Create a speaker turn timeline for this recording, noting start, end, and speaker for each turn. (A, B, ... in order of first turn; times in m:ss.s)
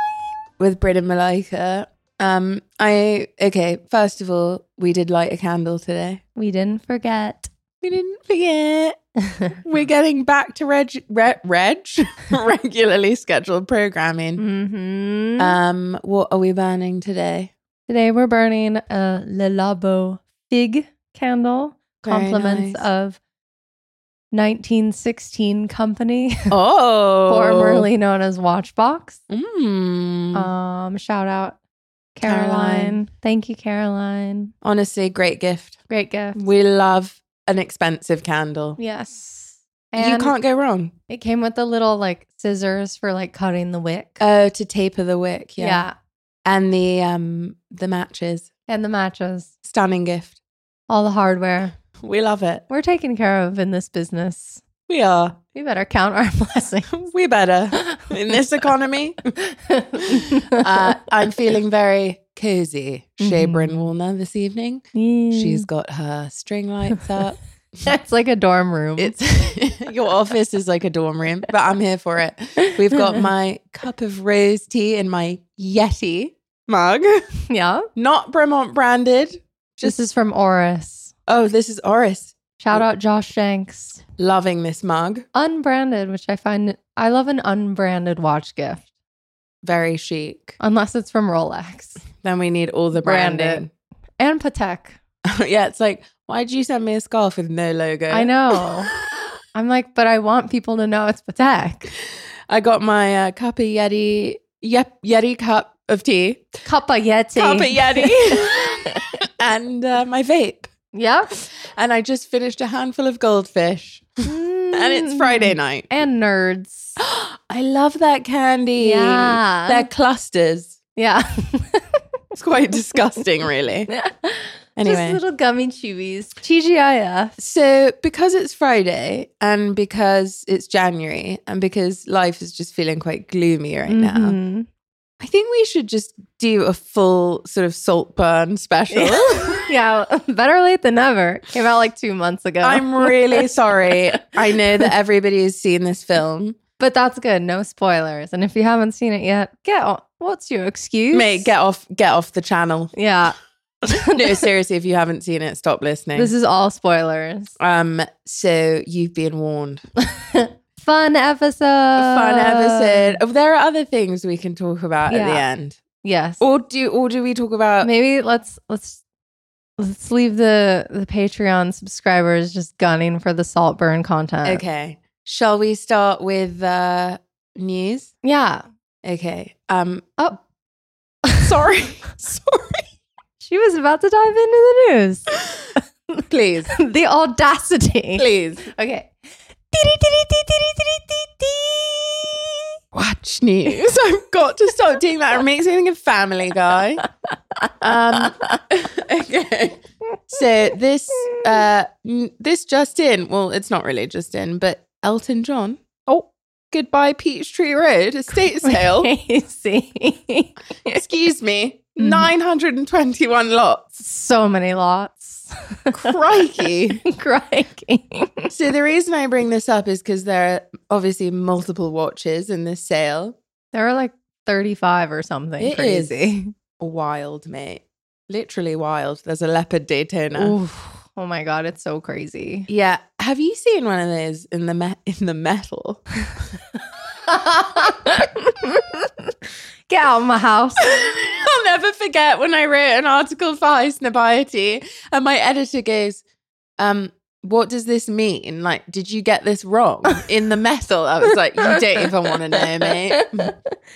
0:00.6-0:06.2 A
0:06.4-0:07.5 B
0:07.8-0:09.0 A
0:09.3-0:09.6 B
0:09.6-0:14.4 A
0:14.4-0:15.6 B
0:15.4-0:17.5 A
0:17.9-0:23.2 B
0:22.0-0:22.8 A
0:24.3-0:26.5 B
0:26.5-0:27.9 A
0:27.3-0:29.2 B
0:29.3-0:30.5 A
0:30.3-0:31.6 B
0:32.2-0:34.5 B
0:32.2-0:33.0 A
0:34.6-0:35.8 A
0:35.9-0:36.5 B
0:36.4-0:38.8 A
0:38.8-0:40.4 B
0:40.0-0:40.9 A
0:41.1-0:44.2 B
0:44.2-0:45.8 A
0:45.6-0:45.9 B
0:46.5-0:48.5 A
0:48.7-0:49.5 B
0:49.6-0:50.4 A
0:50.9-0:51.8 B
0:52.0-0:52.6 A
0:52.7-0:54.6 B
0:54.9-0:55.4 A
0:55.5-0:57.1 B
0:56.9-0:59.3 A
0:57.8-0:58.1 B
0:59.4-1:01.0 B
1:00.0-1:07.4 A
1:03.2-1:03.8 B
1:04.9-1:05.7 B
1:07.8-1:09.5 B
1:09.0-1:17.2 A
1:12.6-1:13.2 B
1:17.5-1:17.9 B
1:18.0-1:20.1 A
1:19.8-1:21.1 B
1:21.3-1:22.8 A
1:22.6-1:24.0 B
1:24.2-1:25.3 A
1:25.3-1:28.9 B
1:29.6-1:30.6 A
1:30.6-1:32.0 B
1:32.2-1:33.7 A
1:33.0-1:33.7 B
1:34.2-1:35.0 B
1:35.3-1:38.6 A
1:38.1-1:38.9 B
1:39.5-1:41.9 B
1:42.5-1:46.6 A
1:46.7-1:49.1 B
1:47.4-1:50.7 A
1:50.9-1:51.3 B
1:51.3-1:55.9 A
1:54.2-1:57.0 B
1:57.0-2:00.8 A
1:58.8-1:59.9 B
2:01.0-2:02.0 B
2:02.4-2:03.9 A
2:03.9-2:07.3 B
2:04.8-2:05.2 A
2:07.4-2:14.4 A
2:13.9-2:14.7 B
2:15.2-2:19.7 A
2:18.9-2:24.2 B
2:22.6-2:26.6 A
2:26.8-2:31.5 B
2:31.1-2:32.9 A
2:32.9-2:34.4 B
2:34.1-2:36.3 A
2:36.2-2:37.6 B
2:37.6-2:39.8 A
2:40.0-2:43.2 B
2:42.0-2:45.8 A
2:45.1-2:45.4 B
2:46.0-2:46.4 B
2:46.4-2:47.9 A
2:47.8-2:49.0 B
2:49.8-2:54.6 B
2:54.4-2:58.1 A
2:58.2-2:58.6 B
2:59.0-3:00.2 A
3:01.4-3:02.9 A
3:03.4-3:09.1 B
3:06.3-3:06.7 A
3:08.2-3:08.7 A
3:09.7-3:12.7 B
3:12.9-3:17.0 A
3:17.8-3:29.1 A
3:28.6-3:31.0 B
3:30.9-3:34.0 A
3:32.0-3:32.3 B
3:34.0-3:36.2 B
3:35.9-3:37.0 A
3:36.9-3:38.5 B
3:38.5-3:43.4 A
3:43.7-3:46.5 B
3:45.6-3:46.1 A
3:46.8-3:50.6 A
3:50.3-3:52.7 B
3:52.7-3:56.1 A
3:57.3-3:59.3 B
3:59.9-4:00.9 B
4:00.8-4:06.2 A
4:06.8-4:13.5 A
4:13.1-4:13.6 B